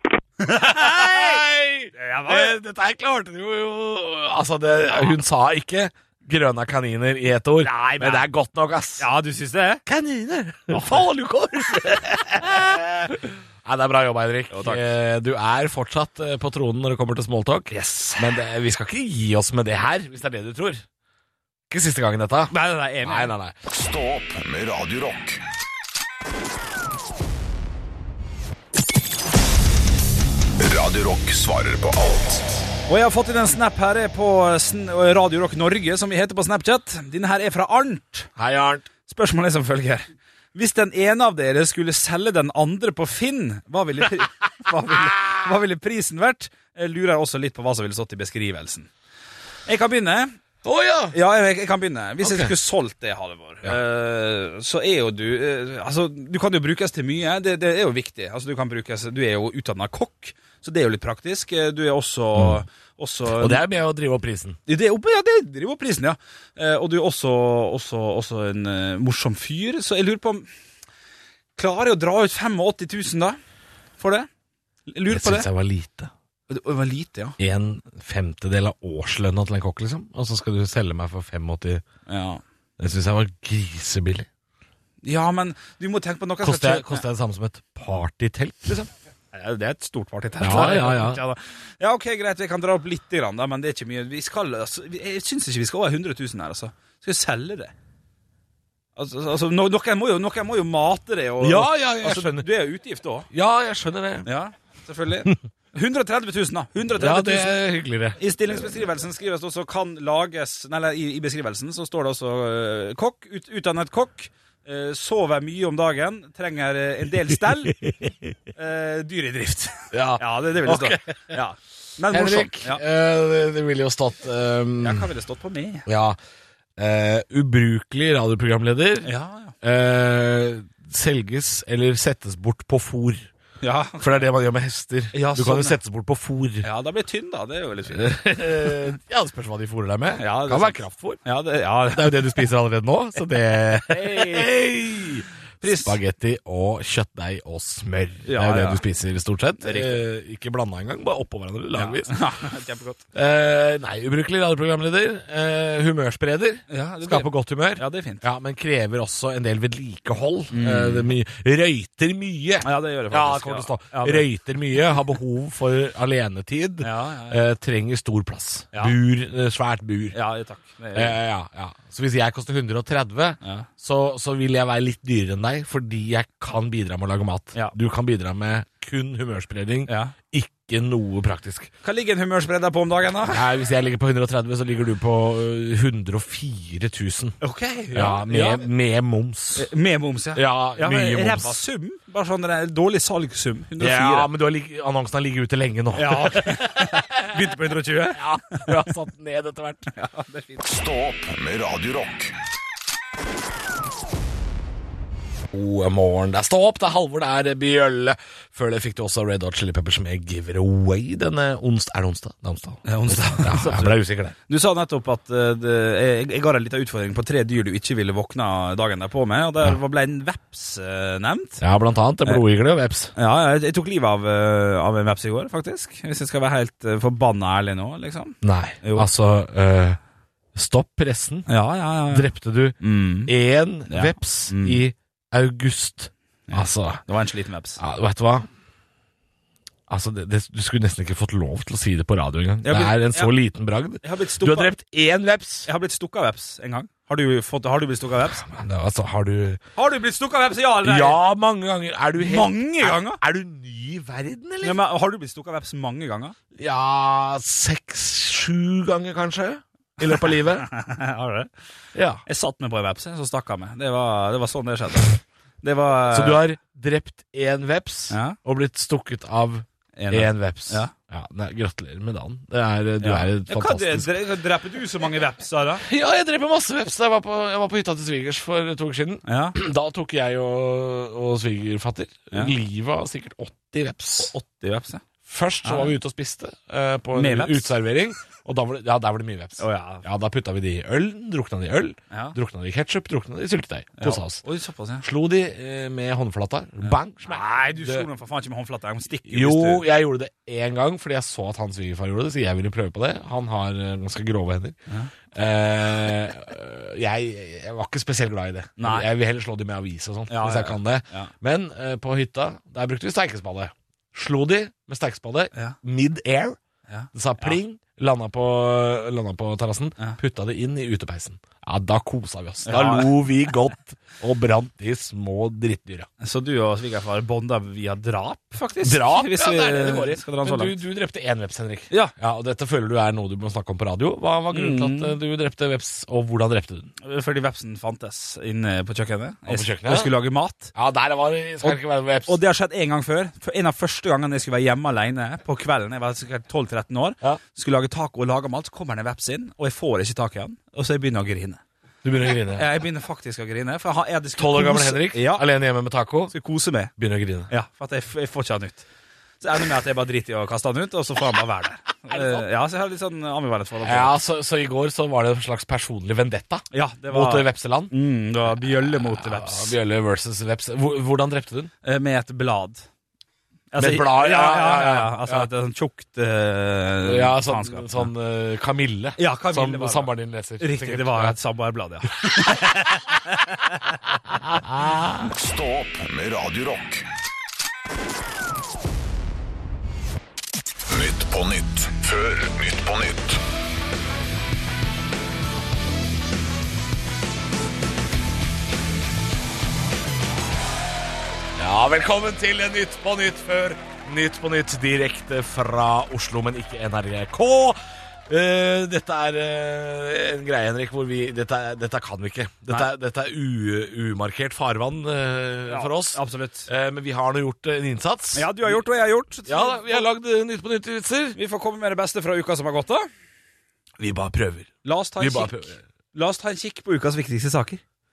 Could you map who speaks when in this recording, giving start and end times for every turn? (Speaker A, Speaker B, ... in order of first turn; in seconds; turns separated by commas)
Speaker A: 0.4-1.4, Speaker B: 0.5-9.1, Speaker A: 2.0-2.6, Speaker A: 7.6-8.3, Speaker A: 9.0-9.8, Speaker B: 9.9-20.8, Speaker A: 10.7-11.1, Speaker A: 11.7-12.3, Speaker A: 14.5-14.8, Speaker A: 17.7-18.4, Speaker B: 21.7-23.6, Speaker A: 22.5-23.3, Speaker C: 23.7-25.4, Speaker C: 30.6-32.6, Speaker A: 32.9-38.3, Speaker B: 38.4-38.9, Speaker A: 39.1-48.9, Speaker A: 49.7-50.4, Speaker B: 50.6-51.2, Speaker A: 51.1-63.6, Speaker B: 52.2-52.5, Speaker B: 62.4-62.6, Speaker B: 63.3-64.6, Speaker A: 64.7-70.5, Speaker A: 71.6-73.4, Speaker A: 74.0-74.3, Speaker A: 74.9-75.5, Speaker B: 75.1-76.1, Speaker A: 76.5-77.4, Speaker B: 77.4-81.8, Speaker A: 82.1-82.4, Speaker B: 82.8-84.3, Speaker A: 85.0-87.0, Speaker B: 86.4-88.8, Speaker A: 88.7-97.7, Speaker B: 90.4-91.2, Speaker A: 99.0-103.3, Speaker B: 101.4-102.5, Speaker B: 103.3-104.3, Speaker A: 104.2-107.6, Speaker B: 107.0-108.2, Speaker A: 108.2-117.8, Speaker B: 117.8-118.3, Speaker A: 118.6-122.8, Speaker B: 119.9-121.4, Speaker B: 122.1-125.1, Speaker A: 124.8-125.9, Speaker B: 125.9-126.2, Speaker B: 126.8-129.1, Speaker A: 129.0-129.5, Speaker B: 129.6-133.3, Speaker A: 133.6-134.2, Speaker B: 134.0-136.7, Speaker A: 135.1-135.8, Speaker A: 136.6-138.7, Speaker B: 137.9-141.2, Speaker A: 140.2-142.4, Speaker B: 141.9-152.3, Speaker A: 143.9-144.5, Speaker A: 145.6-146.0, Speaker A: 148.3-148.8, Speaker A: 149.6-150.0, Speaker A: 151.8-153.0, Speaker B: 153.1-170.2, Speaker A: 156.7-158.2, Speaker A: 160.5-161.1, Speaker A: 162.6-164.3, Speaker A: 166.8-167.4, Speaker A: 170.1-171.2, Speaker B: 170.9-181.7, Speaker A: 179.9-180.1, Speaker A: 181.8-183.4, Speaker B: 183.3-187.4, Speaker A: 187.4-188.6, Speaker B: 187.9-189.7, Speaker A: 189.6-194.3, Speaker B: 190.3-191.6, Speaker B: 193.8-197.6, Speaker A: 196.0-198.9, Speaker B: 198.1-199.9, Speaker A: 199.9-200.6, Speaker C: 200.6-202.3, Speaker B: 205.5-214.3, Speaker A: 212.9-221.6, Speaker B: 221.6-223.1, Speaker A: 223.2-229.1, Speaker B: 228.4-230.0, Speaker B: 230.6-231.5, Speaker A: 231.5-232.3, Speaker B: 232.1-237.0, Speaker A: 232.8-233.3, Speaker A: 233.9-234.8, Speaker A: 236.5-237.8, Speaker B: 237.8-238.5, Speaker B: 239.9-245.7, Speaker A: 242.6-243.3, Speaker A: 244.0-244.8, Speaker A: 245.7-248.5, Speaker B: 248.4-249.6, Speaker A: 249.8-251.2, Speaker B: 250.8-254.8, Speaker A: 252.2-253.2, Speaker A: 254.6-256.4, Speaker B: 256.6-260.7, Speaker A: 260.0-261.5, Speaker B: 261.9-262.2, Speaker A: 262.3-266.4, Speaker B: 266.1-274.1, Speaker A: 268.1-268.4, Speaker A: 270.0-270.9, Speaker A: 273.0-275.9, Speaker B: 275.9-284.3, Speaker A: 279.3-279.6, Speaker A: 284.2-285.0, Speaker B: 285.2-294.4, Speaker A: 285.6-285.9, Speaker A: 287.1-287.7, Speaker A: 289.6-290.1, Speaker A: 292.1-292.4, Speaker A: 294.0-295.0, Speaker B: 295.0-298.1, Speaker A: 296.8-299.9, Speaker B: 299.3-304.8, Speaker B: 305.3-316.6, Speaker A: 308.8-309.1, Speaker A: 310.3-311.3, Speaker A: 316.9-317.6, Speaker B: 317.1-326.1, Speaker A: 322.6-323.1, Speaker A: 326.2-330.8, Speaker B: 328.8-336.9, Speaker A: 334.5-335.1, Speaker A: 337.0-340.7, Speaker B: 339.5-340.1, Speaker B: 340.8-342.4, Speaker A: 341.6-351.6, Speaker B: 352.0-352.7, Speaker A: 352.6-355.5, Speaker B: 354.4-356.3, Speaker A: 356.3-356.9, Speaker B: 357.0-357.5, Speaker A: 357.5-358.9, Speaker A: 359.4-364.1, Speaker B: 362.1-362.5, Speaker B: 363.8-367.9, Speaker A: 366.7-369.8, Speaker B: 368.6-371.7, Speaker A: 371.8-372.9, Speaker A: 373.7-378.1, Speaker B: 373.8-375.5, Speaker B: 377.0-381.4, Speaker A: 379.2-384.0, Speaker B: 384.4-385.3, Speaker C: 385.3-387.1, Speaker C: 390.9-393.4, Speaker B: 401.6-418.8, Speaker A: 415.7-416.7, Speaker A: 418.4-420.1, Speaker B: 419.5-421.4, Speaker A: 421.4-423.1, Speaker B: 424.0-425.8, Speaker A: 424.8-427.8